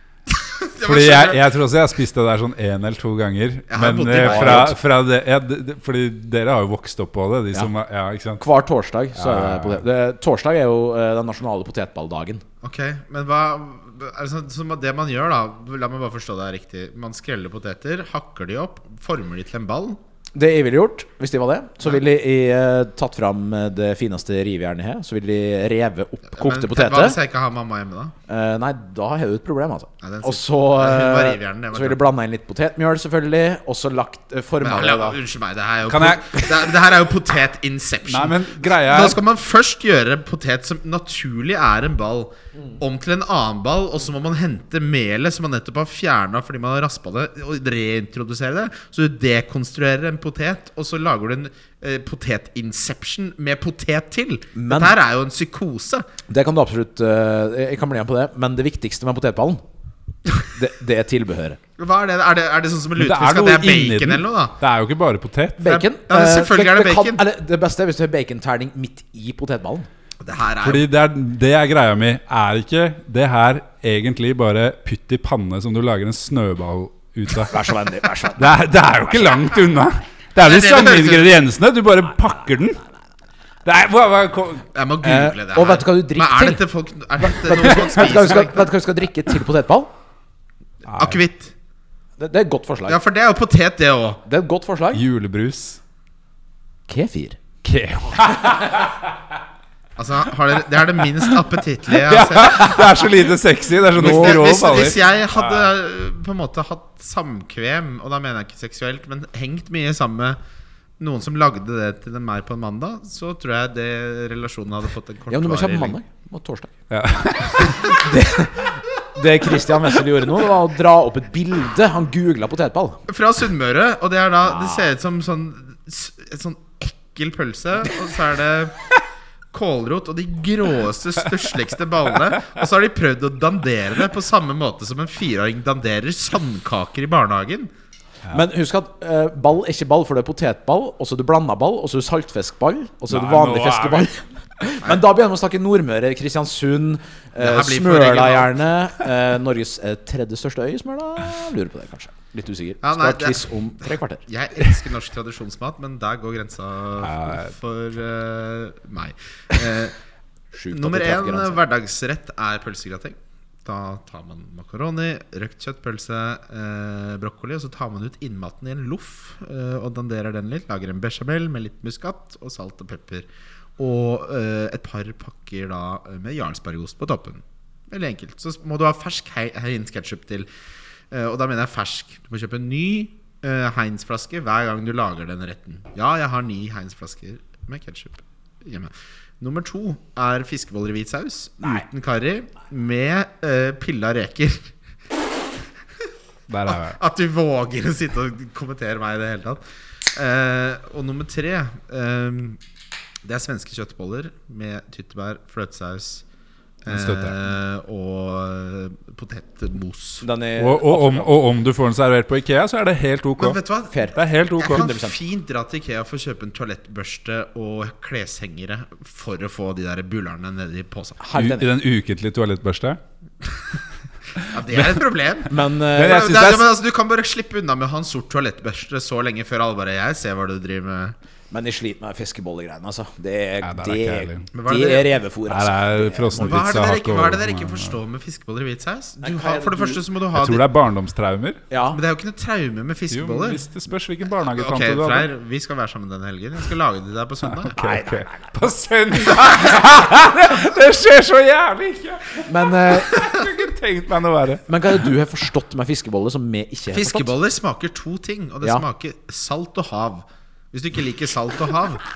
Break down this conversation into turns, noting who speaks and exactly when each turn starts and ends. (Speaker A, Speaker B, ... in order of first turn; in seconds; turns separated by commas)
Speaker A: 0.3-1.5, Speaker B: 0.8-8.4, Speaker A: 3.7-4.8, Speaker C: 4.2-4.7, Speaker C: 8.4-12.4, Speaker B: 9.1-9.8, Speaker A: 12.6-20.0, Speaker C: 20.3-27.2, Speaker A: 26.3-28.1, Speaker C: 28.3-35.2, Speaker A: 30.0-32.0, Speaker A: 34.6-56.0, Speaker B: 35.9-36.8, Speaker B: 38.0-39.2, Speaker C: 54.5-55.0, Speaker C: 56.3-59.6, Speaker C: 60.4-61.6, Speaker A: 61.8-64.6, Speaker B: 63.0-65.8, Speaker C: 65.6-69.9, Speaker A: 65.6-67.2, Speaker A: 70.2-70.9, Speaker B: 70.6-77.7, Speaker C: 77.5-78.5, Speaker B: 78.3-82.8, Speaker A: 80.4-81.4, Speaker B: 83.6-84.7, Speaker A: 84.7-88.7, Speaker C: 85.0-86.6, Speaker C: 87.2-89.9, Speaker B: 90.8-91.2, Speaker A: 91.0-91.5, Speaker C: 92.2-93.0, Speaker A: 92.9-94.2, Speaker C: 94.2-95.0, Speaker B: 94.9-95.8, Speaker C: 96.9-97.4, Speaker B: 97.6-99.0, Speaker A: 100.0-103.0, Speaker B: 101.9-105.7, Speaker A: 103.9-110.4, Speaker C: 104.0-104.3, Speaker A: 111.0-116.0, Speaker C: 115.3-116.7, Speaker B: 116.9-118.0, Speaker C: 117.6-123.0, Speaker A: 123.1-128.8, Speaker C: 124.5-124.9, Speaker A: 129.5-137.7, Speaker C: 138.3-154.2, Speaker B: 143.1-144.1, Speaker A: 147.4-148.6, Speaker A: 152.8-159.9, Speaker B: 157.0-157.5, Speaker C: 160.5-161.6, Speaker A: 160.7-180.5, Speaker A: 181.1-194.7, Speaker B: 196.5-197.0, Speaker A: 196.7-202.6, Speaker A: 203.2-206.2, Speaker A: 206.8-210.2, Speaker B: 206.9-207.3, Speaker C: 210.2-211.3, Speaker B: 210.6-213.6, Speaker A: 213.4-221.2, Speaker C: 213.9-215.2, Speaker B: 214.1-214.9, Speaker C: 221.2-221.7, Speaker B: 221.3-223.0, Speaker A: 224.5-231.1, Speaker B: 224.7-225.0, Speaker C: 225.5-226.4, Speaker B: 225.9-226.7, Speaker C: 231.5-236.6, Speaker B: 233.6-234.5, Speaker A: 234.5-235.2, Speaker B: 235.5-238.0, Speaker A: 236.3-240.6, Speaker C: 239.2-240.0, Speaker B: 240.3-241.6, Speaker C: 241.7-242.0, Speaker A: 241.9-243.6, Speaker B: 243.1-245.3, Speaker A: 244.5-247.8, Speaker B: 247.4-255.1, Speaker C: 247.8-248.6, Speaker C: 252.4-253.3, Speaker C: 254.7-257.3, Speaker A: 256.9-262.0